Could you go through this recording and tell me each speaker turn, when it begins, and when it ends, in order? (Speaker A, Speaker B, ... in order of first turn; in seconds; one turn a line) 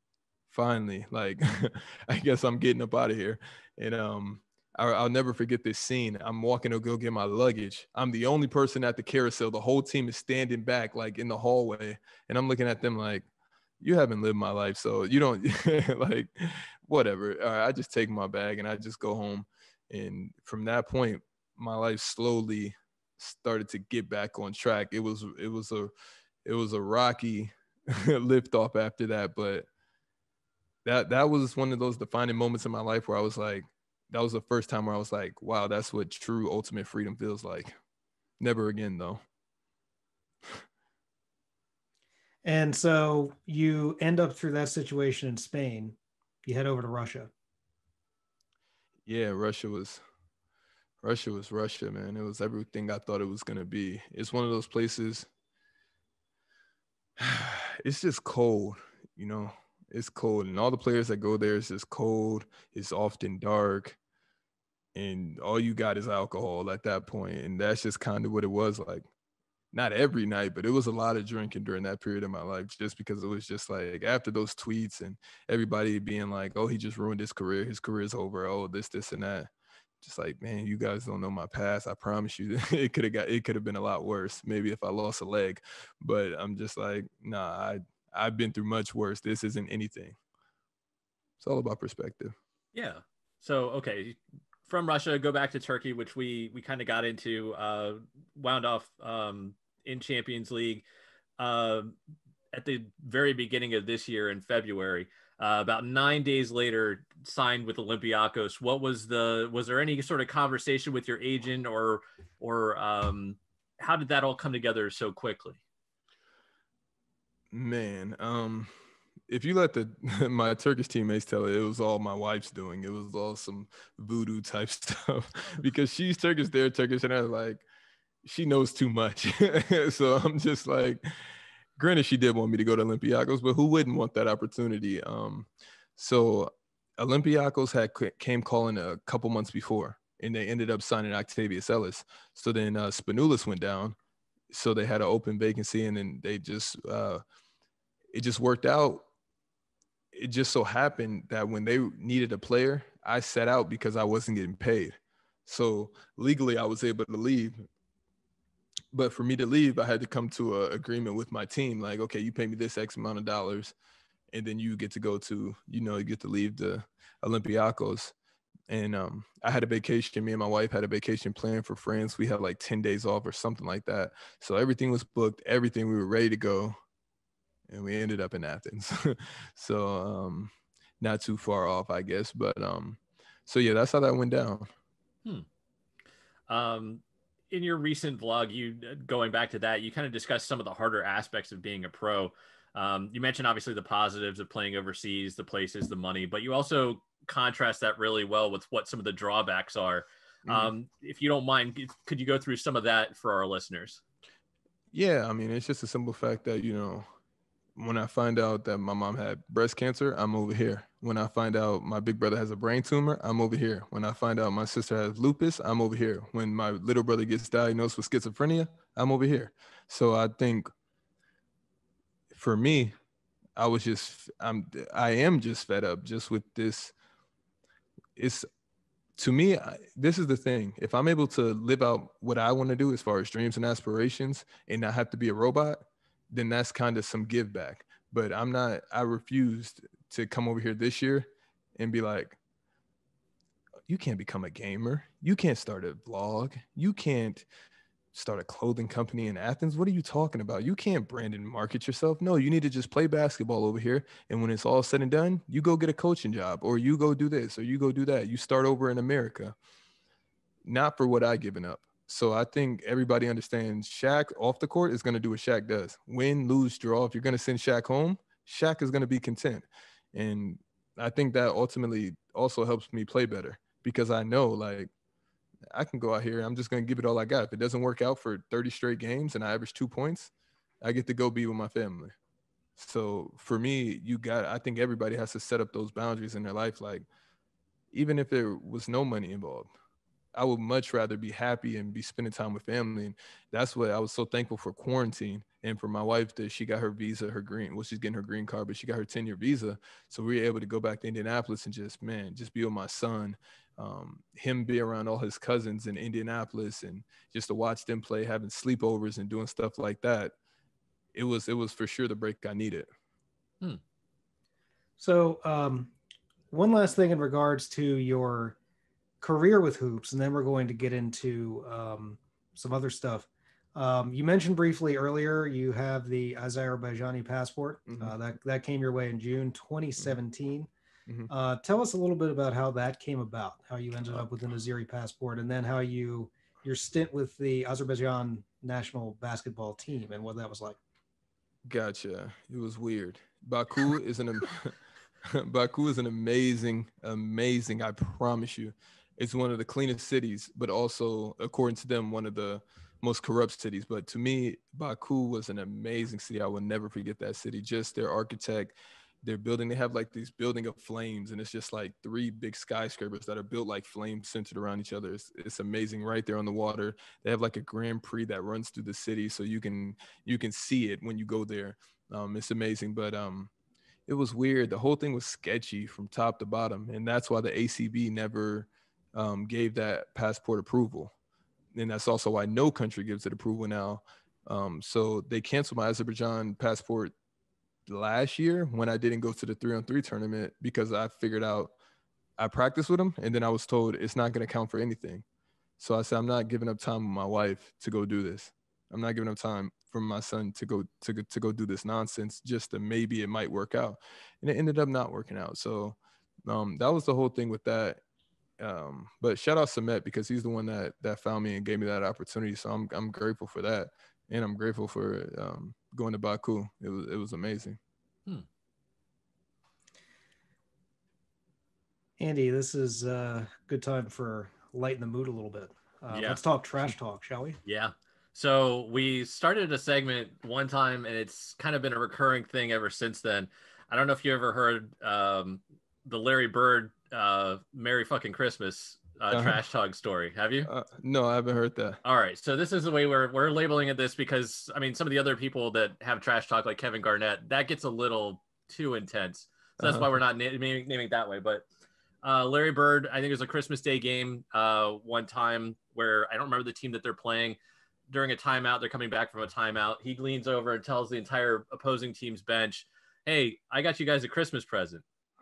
Speaker A: 0.5-13.2
Speaker A: 13.8-25.9
Speaker A: 26.4-29.7
Speaker A: 30.9-37.8
Speaker A: 38.4-39.2
Speaker B: 42.5-47.3
Speaker A: 49.1-50.0
Speaker A: 51.0-55.3
Speaker A: 57.2-64.0
Speaker A: 65.0-69.1
Speaker A: 69.7-79.5
Speaker A: 80.0-90.2
Speaker A: 91.4-92.3
Speaker C: 92.7-100.8
Speaker C: 101.4-102.0
Speaker C: 102.5-115.6
Speaker A: 117.5-118.7
Speaker A: 119.3-127.7
Speaker A: 128.2-131.0
Speaker A: 131.8-144.0
Speaker A: 144.5-147.2
Speaker A: 148.1-149.1
Speaker A: 150.1-157.6
Speaker A: 158.9-163.7
Speaker A: 164.3-168.1
Speaker A: 168.7-176.8
Speaker A: 177.7-184.7
Speaker C: 186.5-204.0
Speaker A: 200.5-200.7
Speaker A: 204.9-207.1
Speaker A: 207.8-220.7
Speaker A: 222.3-222.9
Speaker A: 223.6-226.9
Speaker A: 228.2-228.5
Speaker A: 229.2-242.4
Speaker A: 243.9-247.5
Speaker A: 248.1-259.6
Speaker A: 260.6-274.9
Speaker A: 275.7-282.1
Speaker A: 282.8-287.1
Speaker A: 287.9-289.7
Speaker A: 290.4-310.4
Speaker A: 311.1-312.9
Speaker B: 315.0-315.9
Speaker B: 316.5-318.6
Speaker B: 319.2-330.7
Speaker A: 327.9-328.1
Speaker B: 331.3-340.8
Speaker A: 341.7-373.5
Speaker A: 374.1-381.1
Speaker A: 381.7-387.1
Speaker A: 387.9-391.7
Speaker A: 392.4-395.2
Speaker A: 395.8-408.0
Speaker A: 408.6-417.8
Speaker B: 422.2-427.6
Speaker C: 426.1-426.4
Speaker C: 427.6-440.7
Speaker A: 439.3-439.6
Speaker A: 440.6-442.0
Speaker C: 442.0-451.7
Speaker A: 449.8-450.1
Speaker C: 452.2-457.6
Speaker C: 458.1-465.0